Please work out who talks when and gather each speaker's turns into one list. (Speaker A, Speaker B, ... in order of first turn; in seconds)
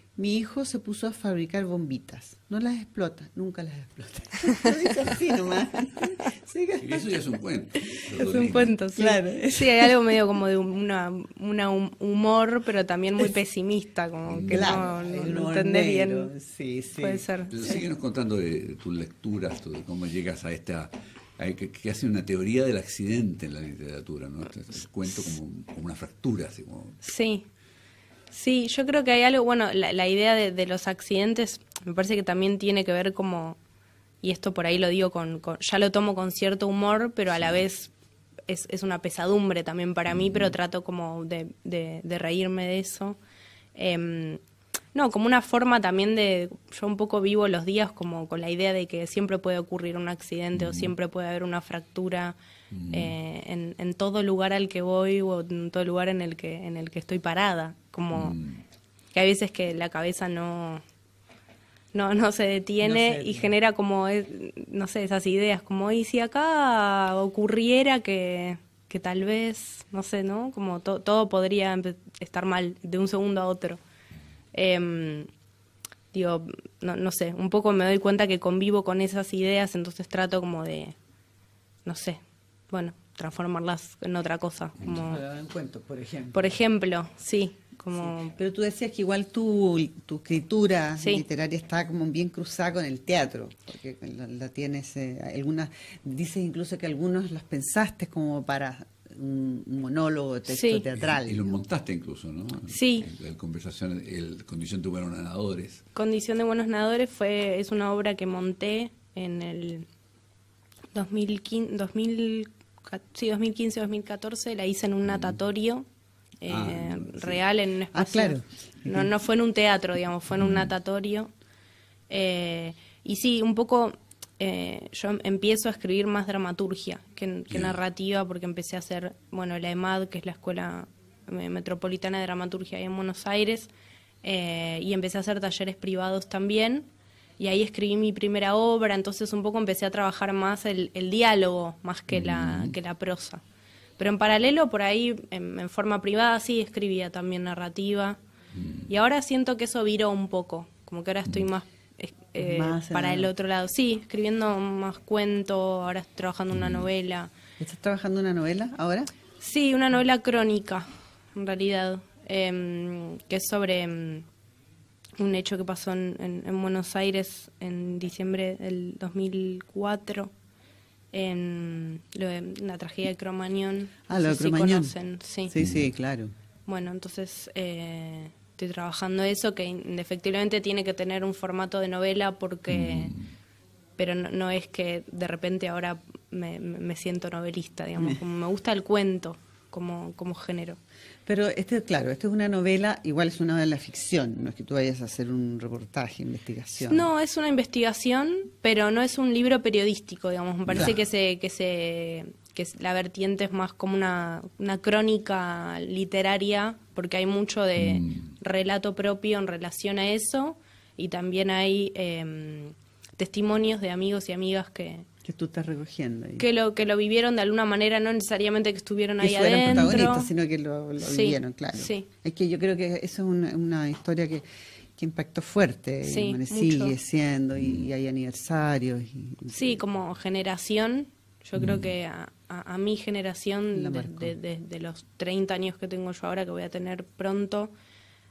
Speaker A: 0.2-7.2, 8.9-10.1, 14.5-17.2, 62.8-63.5, 84.9-86.5, 87.9-101.6, 117.9-119.1, 152.4-153.3, 157.6-159.1, 174.1-174.9, 175.5-176.3, 191.2-197.1, 215.2-216.4, 219.2-224.4, 225.0-229.8, 233.7-234.3
Speaker B: 6.8-8.7, 14.2-14.8, 17.5-27.0, 37.4-37.6, 40.1-40.5, 50.5-50.9, 52.7-53.1, 58.1-58.6, 100.9-105.8, 115.1-115.4, 116.5-117.4, 120.4-120.7, 127.5-127.8, 142.1-142.7, 148.5-148.9, 156.5-156.9, 175.5-175.9, 182.7-183.3, 200.7-200.9, 207.8-208.3, 227.6-227.8, 231.6-231.9
Speaker C: 8.2-16.3, 17.0-17.6, 27.0-27.4, 28.3-33.6, 34.2-37.9, 38.5-43.2, 43.7-44.4, 44.9-52.4, 52.9-58.4, 59.1-60.8, 61.9-73.8, 74.5-75.3, 76.1-80.9, 81.8-85.2, 86.3-88.3, 100.5-100.8, 102.7-103.1, 105.9-109.9, 110.9-115.8, 116.4-121.3, 122.1-133.7, 134.2-136.8, 137.4-143.4, 144.0-148.2, 148.9-157.3, 159.4-164.2, 165.2-170.3, 171.1-175.5, 176.7-183.1, 184.0-190.8, 196.9-215.1, 216.4-220.3, 221.0-222.1, 226.0-226.9, 229.5-237.7